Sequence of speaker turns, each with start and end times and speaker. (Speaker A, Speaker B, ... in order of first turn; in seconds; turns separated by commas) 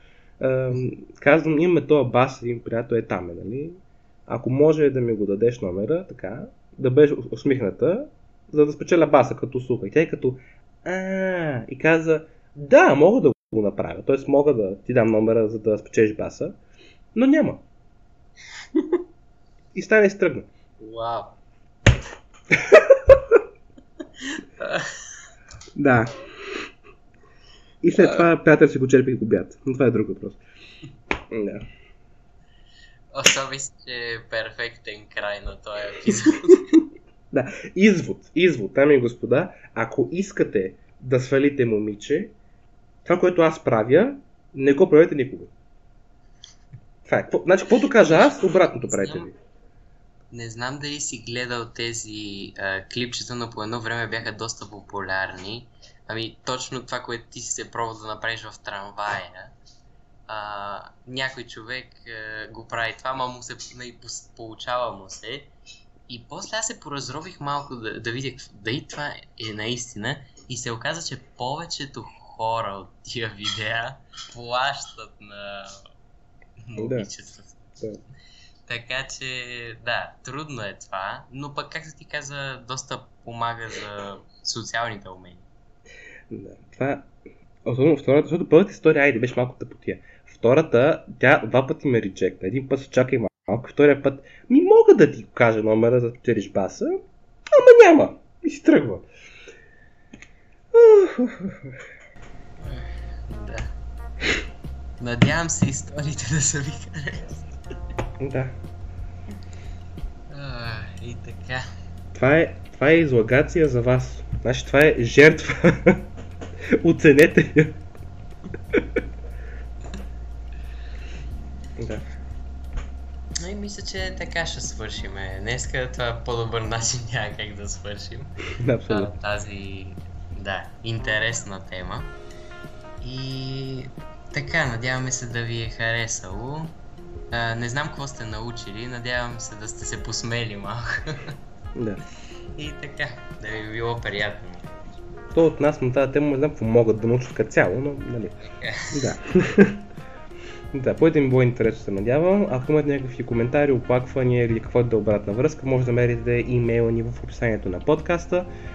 Speaker A: 0.4-16.6, Speaker A: 17.1-17.6, Speaker A: 19.7-20.5, Speaker B: 20.8-21.4, Speaker A: 22.5-23.2, Speaker B: 24.2-24.9, Speaker A: 25.8-26.6, Speaker A: 27.8-30.4, Speaker B: 28.0-28.3, Speaker A: 31.3-31.6, Speaker B: 33.1-36.8, Speaker A: 37.3-42.4, Speaker A: 43.0-45.5, Speaker A: 47.0-49.3, Speaker B: 47.9-49.3, Speaker B: 50.3-59.5, Speaker B: 60.3-65.5, Speaker B: 66.1-75.8, Speaker B: 76.7-77.8, Speaker A: 76.8-77.1, Speaker B: 78.7-85.5, Speaker A: 86.3-87.1, Speaker A: 87.7-99.1, Speaker A: 100.7-101.7, Speaker B: 102.6-103.7, Speaker B: 105.0-107.5, Speaker A: 108.2-108.5, Speaker B: 110.3-111.7, Speaker A: 112.1-116.0, Speaker A: 116.8-117.8, Speaker A: 121.8-122.0, Speaker B: 123.4-128.3, Speaker A: 128.6-129.1, Speaker B: 128.9-132.1, Speaker B: 133.0-136.8, Speaker B: 137.3-141.3, Speaker A: 141.8-142.0, Speaker B: 142.6-145.0, Speaker A: 145.3-148.4, Speaker B: 148.4-149.1, Speaker A: 148.9-149.8, Speaker A: 150.7-158.5